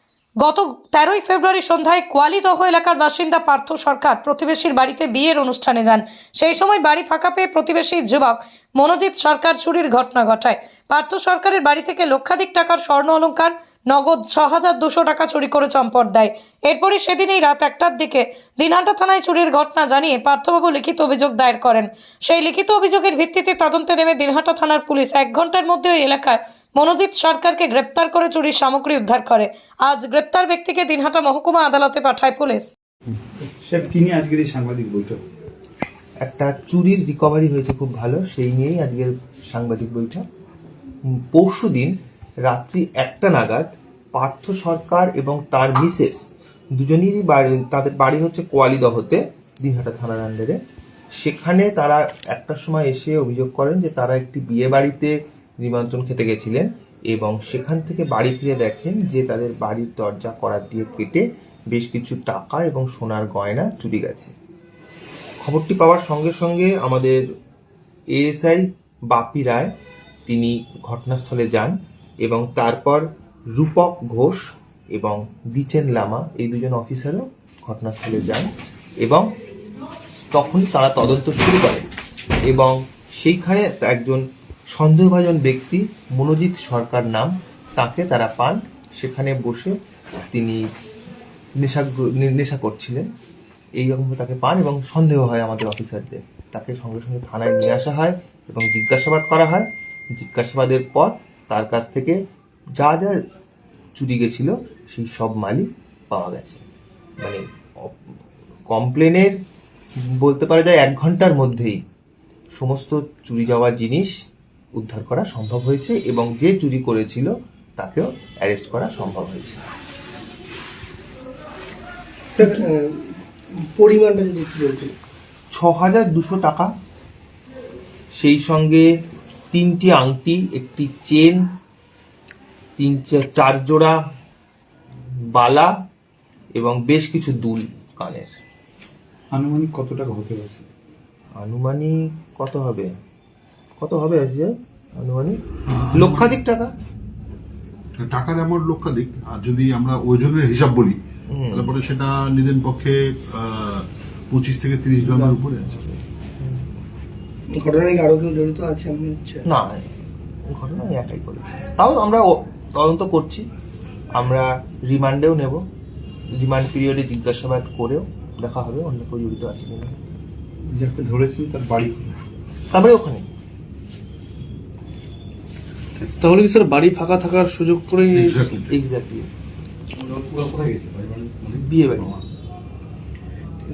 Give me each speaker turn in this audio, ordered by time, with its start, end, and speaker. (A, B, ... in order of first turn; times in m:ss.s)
0:00.4-0:32.7 A
0:33.4-0:35.2 B
0:36.2-0:40.2 C
0:41.3-0:41.9 C
0:42.5-0:46.2 C
0:46.8-0:50.6 C
0:51.2-1:04.3 C
1:05.4-1:07.2 C
1:08.1-1:09.7 C
1:10.3-1:13.0 C
1:13.5-1:14.4 C
1:14.9-1:18.5 C
1:19.0-1:19.3 C
1:20.3-1:21.8 C
1:22.5-1:24.2 C
1:24.7-1:30.6 C
1:31.6-1:33.0 C
1:33.8-1:42.2 C
1:42.8-1:43.2 C
1:44.0-1:46.6 C
1:47.2-1:48.0 C
1:48.7-1:49.3 C
1:50.1-1:51.8 C
1:52.6-1:54.1 C
1:54.8-1:59.6 C
2:02.3-2:03.1 D
2:03.7-2:04.9 D
2:05.5-2:06.7 C
2:08.2-2:08.8 C
2:09.5-2:11.4 C
2:12.8-2:14.0 C
2:15.3-2:15.7 C
2:16.6-2:18.3 C
2:19.3-2:20.7 B
2:21.4-2:22.9 C
2:23.8-2:25.4 C
2:25.7-2:26.4 E
2:25.9-2:26.7 C
2:28.0-2:31.0 E
2:31.3-2:31.7 C
2:31.5-2:35.7 E
2:35.2-2:36.6 C
2:37.5-2:39.4 D
2:39.4-2:43.4 C
2:44.2-2:45.6 C
2:46.4-2:49.9 C
2:50.7-2:52.2 B
2:52.7-2:53.2 C
2:56.0-2:58.4 F
2:58.1-2:58.7 E
2:58.7-2:59.3 C
3:00.1-3:01.5 B
3:01.5-3:02.2 C